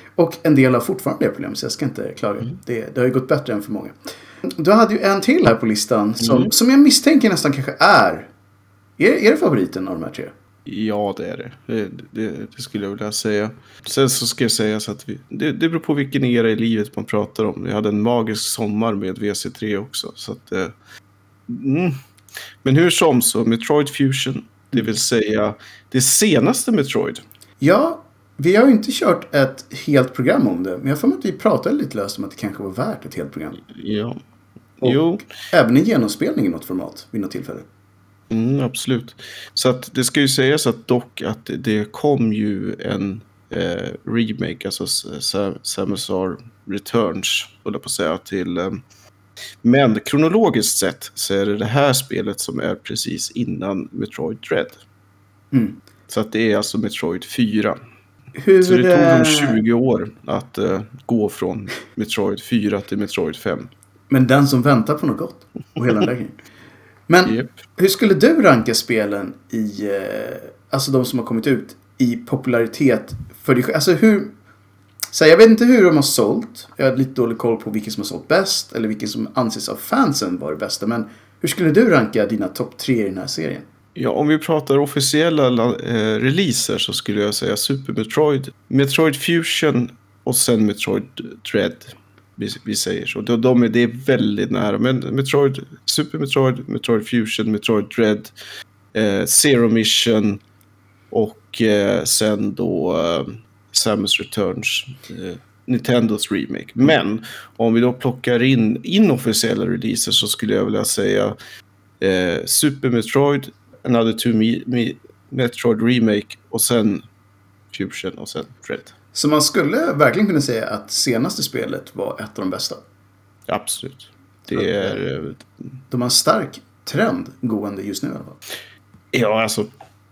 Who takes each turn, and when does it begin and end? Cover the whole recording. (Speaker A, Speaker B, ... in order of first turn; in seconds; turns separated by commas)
Speaker A: 0.2-8.3, Speaker B: 6.2-6.5, Speaker A: 9.0-10.3, Speaker B: 10.7-20.7, Speaker B: 21.5-22.0, Speaker B: 22.6-27.2, Speaker A: 27.6-33.6, Speaker B: 33.6-34.2, Speaker B: 34.8-35.3, Speaker A: 34.8-37.7, Speaker B: 38.3-48.8, Speaker B: 49.6-54.8, Speaker A: 55.5-55.8, Speaker B: 56.1-57.8, Speaker A: 58.4-59.6, Speaker B: 58.6-63.7, Speaker A: 64.1-66.4, Speaker A: 67.1-74.3, Speaker B: 67.2-67.6, Speaker A: 75.1-83.7, Speaker B: 84.0-98.3, Speaker B: 98.9-100.4, Speaker B: 101.1-111.4, Speaker B: 112.0-117.0, Speaker B: 117.7-118.9, Speaker A: 119.1-122.8, Speaker B: 123.5-125.5, Speaker A: 124.5-125.0, Speaker A: 125.9-128.4, Speaker B: 129.1-129.7